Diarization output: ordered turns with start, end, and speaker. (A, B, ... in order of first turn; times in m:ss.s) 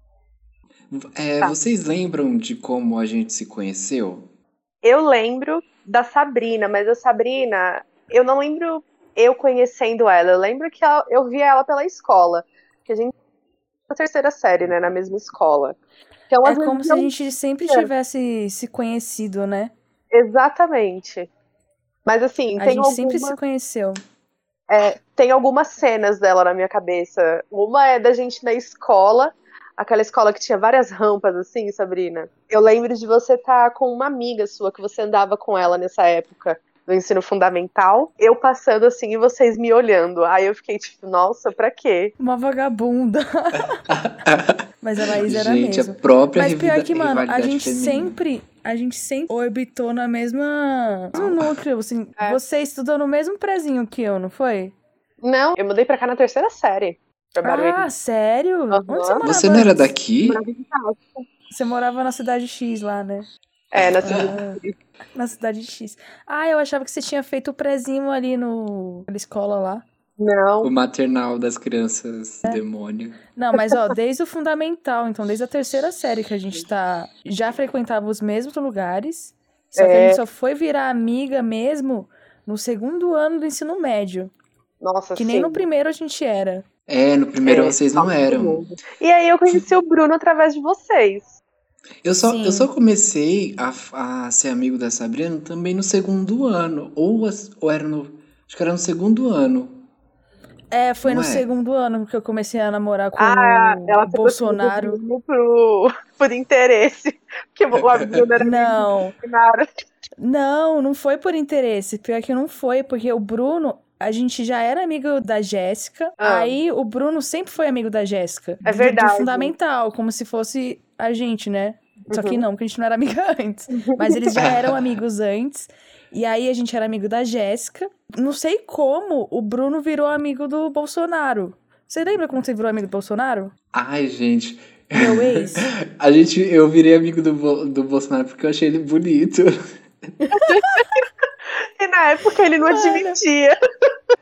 0:00.9-0:04.3 A
0:04.8-0:13.1 B
0:13.9-0:15.8 B
0:16.3-0:17.1 B
0:16.4-0:19.7 C
0:20.1-0:21.3 B
0:22.0-0:23.4 B
0:22.6-0:24.0 C
0:24.7-0:42.1 B
0:42.2-0:43.9 C
0:43.9-0:48.2 A
0:44.8-0:54.7 C
0:51.1-0:51.5 A
0:55.2-0:57.9 B
0:57.4-0:59.9 C
0:58.7-0:59.2 B
0:59.2-1:00.4 A
1:00.3-1:01.2 B
1:01.5-1:03.2 C
1:03.7-1:04.7 B
1:03.8-1:04.3 A
1:04.0-1:04.6 C
1:05.1-1:09.8 C
1:10.2-1:10.7 B
1:10.6-1:13.2 A
1:13.3-1:24.3 C
1:19.8-1:20.2 B
1:24.8-1:25.6 B
1:25.2-1:26.6 C
1:26.9-1:28.6 A
1:27.4-1:31.4 B
1:32.0-1:39.8 A
1:32.2-1:32.7 C
1:40.7-1:45.0 C
1:41.0-1:41.4 A
1:43.2-1:49.6 B
1:47.7-1:48.3 A
1:48.4-1:49.1 C
1:50.2-2:13.5 C
1:56.2-1:56.5 B
1:58.6-1:59.5 B
2:02.1-2:02.4 B
2:03.8-2:04.2 B
2:04.3-2:04.8 A
2:13.7-2:19.6 A
2:14.9-2:15.6 C
2:20.3-2:20.8 B
2:21.8-2:23.5 B
2:22.6-2:23.2 C